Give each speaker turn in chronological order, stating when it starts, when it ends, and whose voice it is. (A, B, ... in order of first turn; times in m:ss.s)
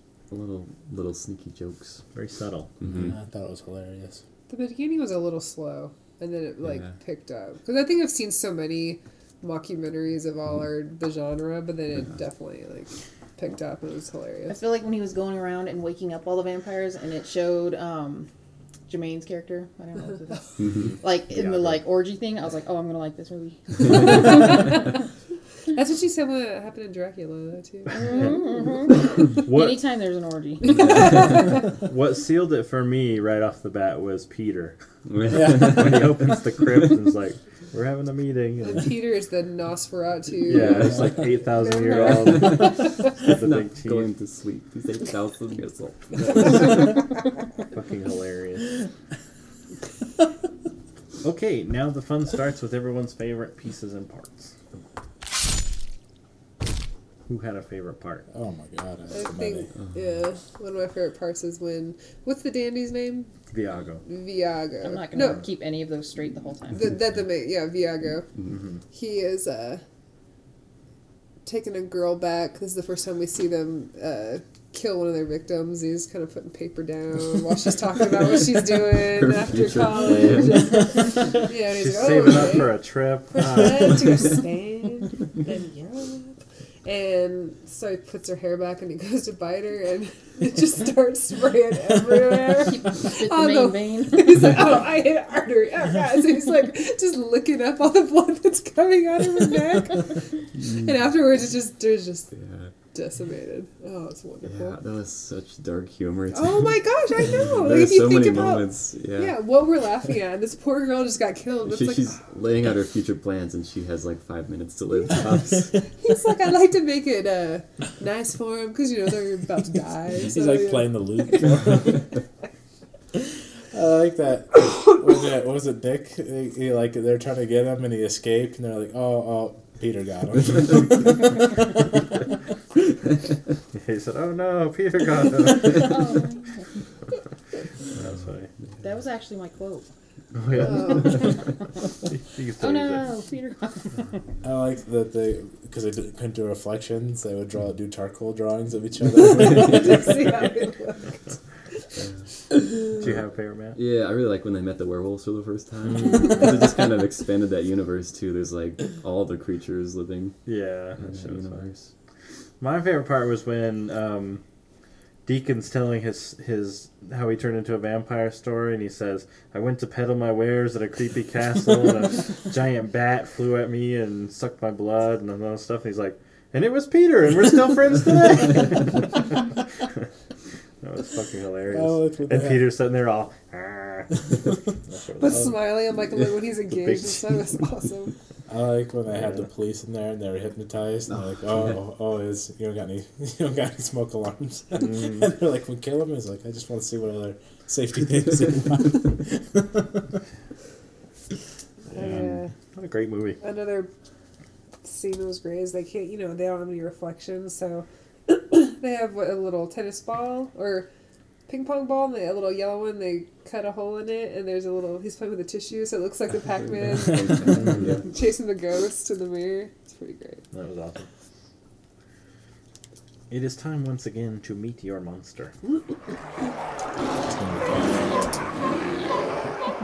0:00.3-0:02.0 A
0:02.1-0:02.7 B
0:02.8-0:03.1 A
0:02.9-0:04.2 C
0:04.5-0:14.6 D
0:06.7-0:06.9 A
0:14.5-0:18.3 E
0:18.9-0:24.7 E
0:20.8-0:21.8 B
0:23.8-0:24.8 D
0:25.7-0:28.4 D
0:27.9-0:31.2 E
0:28.0-0:28.3 B
0:29.4-0:29.8 B
0:30.6-0:31.7 D
0:31.6-0:38.9 B
0:35.1-0:36.1 A
0:38.6-0:40.9 D
0:40.5-0:44.1 B
0:40.6-0:41.1 A
0:41.5-0:42.9 D
0:42.1-0:46.8 A
0:47.7-0:48.7 B
0:51.2-0:54.5 B
0:57.3-0:58.3 B
0:58.3-0:59.7 C
0:59.1-1:03.3 D
1:03.5-1:04.0 B
1:04.0-1:05.5 D
1:04.8-1:06.9 E
1:06.7-1:08.3 D
1:08.4-1:08.8 B
1:08.9-1:09.8 D
1:11.5-1:42.3 D
1:19.0-1:21.0 A
1:21.6-1:24.3 B
1:32.6-1:34.6 E
1:42.3-1:42.7 A
1:42.9-1:44.8 D
1:44.4-1:46.8 A
1:46.3-1:52.2 D
1:47.3-1:49.4 A
1:51.7-1:55.7 A
1:55.1-2:01.6 D
2:00.3-2:02.0 C
2:03.7-2:11.5 C
2:13.7-2:16.2 B
2:15.7-2:16.6 E
2:17.9-2:18.5 B
2:18.8-2:19.9 E
2:20.3-2:21.4 B
2:20.6-2:21.2 D
2:22.1-2:23.1 B
2:22.6-2:24.0 E
2:24.4-2:30.2 C
2:29.2-2:31.2 D
2:32.9-2:33.8 B
2:33.8-2:40.4 A
2:40.5-2:41.7 B
2:41.0-2:41.9 A
2:42.6-2:44.4 B
2:45.3-3:00.0 B
3:00.8-3:05.6 B
3:01.7-3:02.7 C
3:05.2-3:08.1 D
3:06.7-3:07.2 B
3:08.5-3:20.1 C
3:14.8-3:15.2 B
3:21.9-3:22.5 D
3:22.0-3:23.4 B
3:23.4-3:23.9 D
3:24.8-3:30.9 D
3:31.5-3:40.4 D
3:36.9-3:38.0 A
3:40.5-3:41.1 B
3:43.3-3:45.5 B
3:47.3-3:48.0 C